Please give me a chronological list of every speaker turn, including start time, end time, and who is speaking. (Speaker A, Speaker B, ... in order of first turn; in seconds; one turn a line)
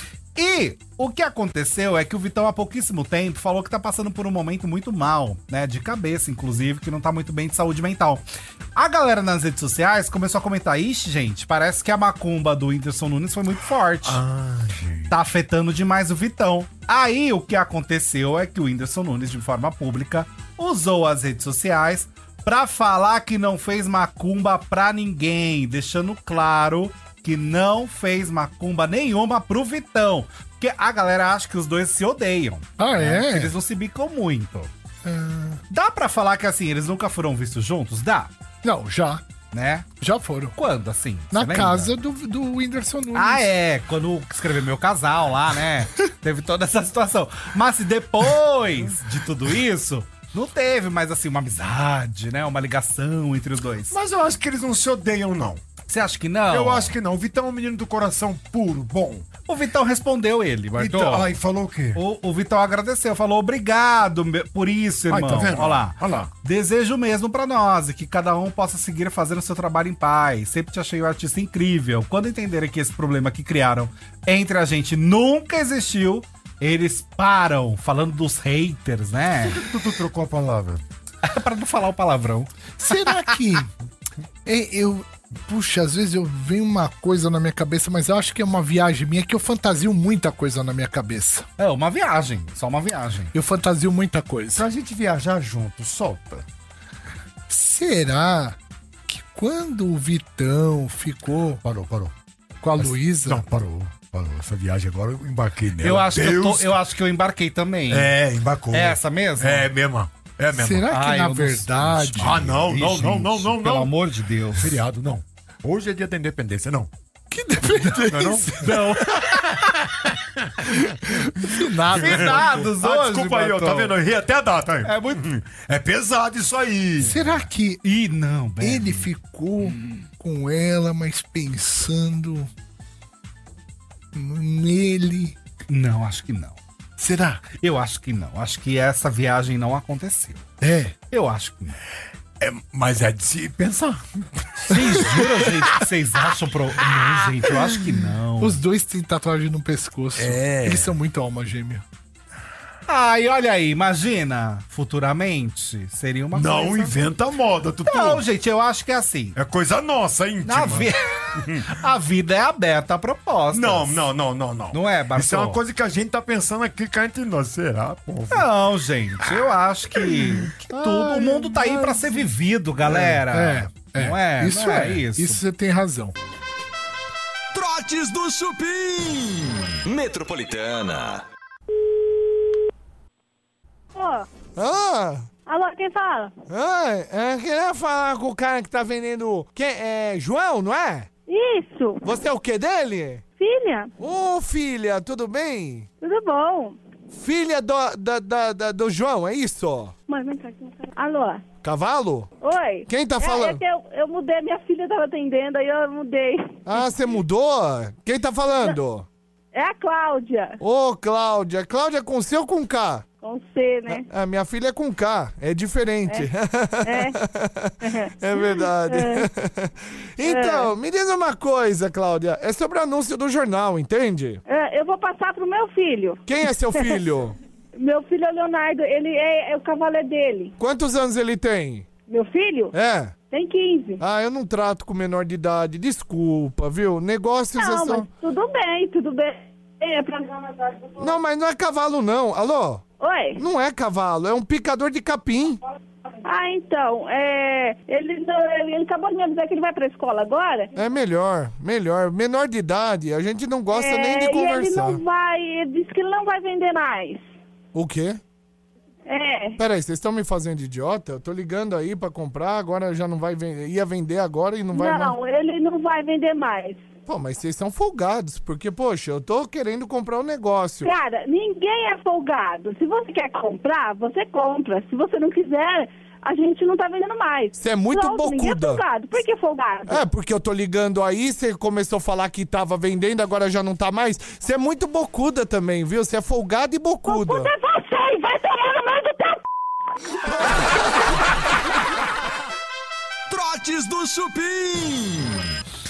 Speaker A: 0.3-8.2
Speaker A: 8.8-14.2
Speaker B: 14.0-15.1
Speaker A: 15.1-34.7
Speaker C: 32.8-33.5
Speaker C: 35.0-35.6
Speaker A: 35.7-38.3
Speaker C: 38.6-39.2
Speaker A: 39.5-39.9
Speaker C: 40.0-40.5
Speaker A: 40.5-41.9
Speaker C: 41.3-43.5
Speaker A: 43.1-53.9
Speaker B: 53.9-55.6
Speaker A: 55.9-56.9
Speaker B: 56.5-59.2
Speaker A: 59.5-61.3
Speaker B: 60.8-62.0
Speaker A: 61.9-79.6
Speaker B: 65.1-66.3
Speaker B: 79.4-80.8
Speaker A: 81.2-82.5
Speaker C: 82.8-83.7
Speaker C: 84.4-91.5
Speaker A: 91.6-93.3
Speaker C: 93.3-94.6
Speaker B: 94.5-96.4
Speaker C: 97.5-101.6
Speaker B: 101.6-102.1
Speaker C: 102.6-103.5
Speaker B: 102.8-106.7
Speaker A: 105.8-108.2
Speaker B: 107.9-110.8
Speaker A: 108.7-109.7
Speaker C: 110.5-112.5
Speaker A: 110.9-114.8
Speaker B: 112.2-113.9
Speaker B: 114.5-116.9
Speaker C: 117.3-119.4
Speaker B: 118.0-118.7
Speaker A: 118.6-119.5
Speaker C: 120.9-122.5
Speaker A: 121.9-124.0
Speaker B: 122.0-127.3
Speaker A: 124.8-125.2
Speaker C: 127.0-127.8
Speaker A: 127.8-129.1
Speaker C: 128.6-132.5
Speaker A: 129.7-130.0
Speaker C: 134.1-135.4
Speaker A: 135.7-136.6
Speaker C: 137.0-137.4
Speaker A: 137.6-140.4
Speaker C: 140.6-140.9
Speaker A: 141.1-141.8
Speaker B: 142.4-143.9
Speaker A: 144.7-148.6
Speaker C: 148.4-151.8
Speaker B: 150.2-150.9
Speaker A: 152.9-156.9
Speaker B: 156.3-158.2
Speaker A: 157.9-159.4
Speaker B: 159.3-161.7
Speaker A: 160.4-164.1
Speaker B: 163.5-168.4
Speaker A: 164.7-165.6
Speaker A: 168.3-175.4
Speaker B: 170.7-171.9
Speaker C: 172.9-176.1
Speaker D: 177.5-181.2
Speaker E: 183.9-184.3
Speaker F: 184.6-185.3
Speaker E: 185.4-186.3
Speaker F: 186.5-191.1
Speaker E: 191.3-192.0
Speaker F: 192.0-193.2
Speaker E: 193.3-193.9
Speaker F: 194.0-195.9
Speaker E: 196.0-196.8
Speaker F: 197.1-199.9
Speaker E: 200.1-201.4
Speaker F: 201.6-202.3
Speaker E: 202.4-206.9
Speaker F: 202.9-203.6
Speaker F: 206.7-209.1
Speaker E: 209.5-210.6
Speaker F: 210.6-213.1
Speaker E: 213.2-214.1
Speaker F: 213.9-224.4
Speaker E: 216.8-217.2
Speaker E: 217.8-219.3
Speaker E: 220.2-220.7
Speaker E: 224.5-227.0
Speaker F: 226.2-227.3
Speaker E: 227.7-230.5
Speaker F: 230.6-231.9
Speaker E: 232.1-234.0
Speaker F: 232.7-233.2
Speaker F: 234.0-238.1
Speaker E: 237.6-241.1
Speaker F: 241.0-245.6
Speaker E: 243.0-243.4
Speaker E: 246.2-250.7
Speaker F: 250.8-255.0
Speaker E: 253.7-257.3
Speaker F: 257.7-258.2
Speaker E: 259.1-259.6
Speaker F: 259.6-265.2
Speaker E: 264.7-266.9
Speaker F: 267.1-270.9
Speaker E: 270.8-280.0
Speaker F: 277.6-278.8
Speaker F: 279.9-287.5
Speaker E: 287.1-289.4
Speaker D: 293.3-295.5